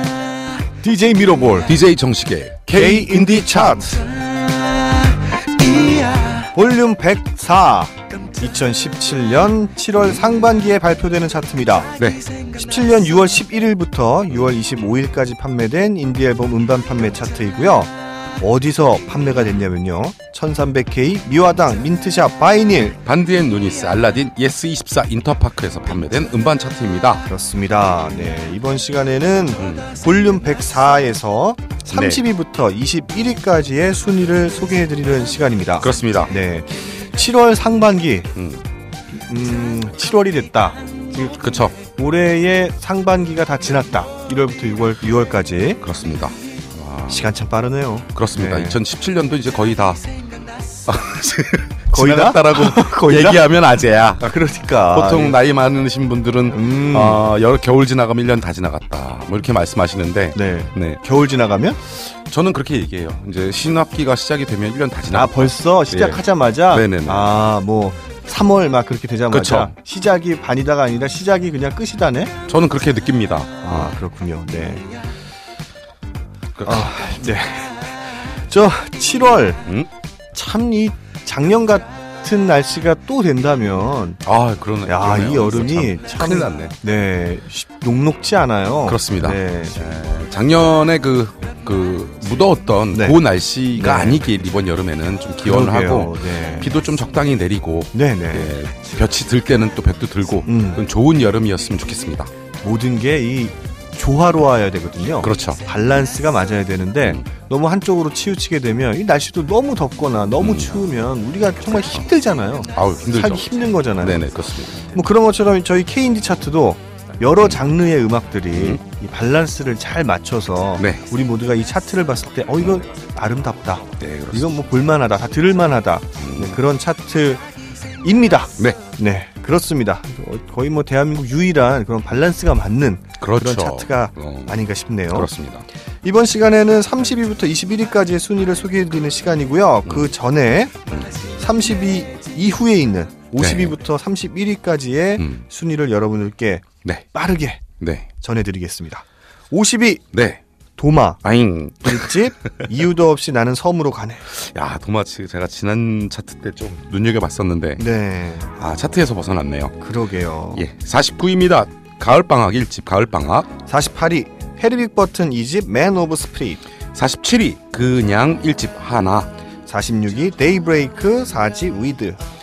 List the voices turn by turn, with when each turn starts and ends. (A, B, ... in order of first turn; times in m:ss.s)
0:00.8-0:01.7 A
0:01.6-0:04.0 B
0:02.7-0:04.0 A
0:05.8-0:06.2 B
0:06.3-0:11.9 A
0:12.0-0:12.3 B
0:12.5-0:23.0 A
0:23.0-0:27.3 B
0:27.3-0:38.3 A
0:29.6-0:30.0 B
0:31.9-0:32.2 B
0:35.8-0:36.3 B
0:38.4-0:38.6 B
0:39.1-0:41.4 A
0:41.4-0:41.8 B
0:42.0-0:45.8 A
0:45.8-0:47.3 B
0:47.1-0:48.8 A
0:48.1-0:50.1 B
0:50.9-0:54.3 B
0:51.9-0:53.5 A
0:54.2-0:55.4 A
0:54.9-1:01.0 B
0:56.5-0:57.3 A
1:00.4-1:01.8 A
1:01.8-1:07.3 B
1:05.1-1:12.3 A
1:09.3-1:09.8 B
1:12.5-1:13.9 B
1:13.6-1:14.9 A
1:16.6-1:17.1 B
1:16.6-1:19.6 A
1:20.3-1:24.2 A
1:24.2-1:26.8 B
1:24.9-1:29.9 A
1:28.8-1:42.3 B
1:32.9-1:33.2 A
1:33.8-1:34.2 A
1:35.4-1:36.7 A
1:37.9-1:38.6 A
1:40.5-1:40.8 A
1:42.6-1:54.2 A
1:45.2-1:45.6 B
1:50.4-1:50.7 B
1:52.7-1:54.9 B
1:54.8-2:07.4 A
1:58.5-1:58.8 B
2:04.0-2:04.7 B
2:06.2-2:06.6 B
2:08.0-2:15.3 A
2:13.2-2:14.6 B
2:15.1-2:15.7 B
2:16.0-2:20.7 A
2:19.8-2:20.1 B
2:20.9-2:21.2 B
2:21.3-2:27.6 A
2:23.4-2:23.8 B
2:25.2-2:25.4 B
2:27.8-2:28.1 B
2:28.2-2:30.0 A
2:30.1-2:30.4 B
2:30.8-2:31.2 A
2:31.2-2:32.2 B
2:31.8-2:34.3 A
2:34.3-2:37.8 B
2:37.8-2:38.5 A
2:38.5-2:39.8 B
2:39.8-2:40.6 A
2:40.5-2:43.5 B
2:43.7-2:46.6 A
2:46.9-2:49.3 B
2:49.7-2:52.2 A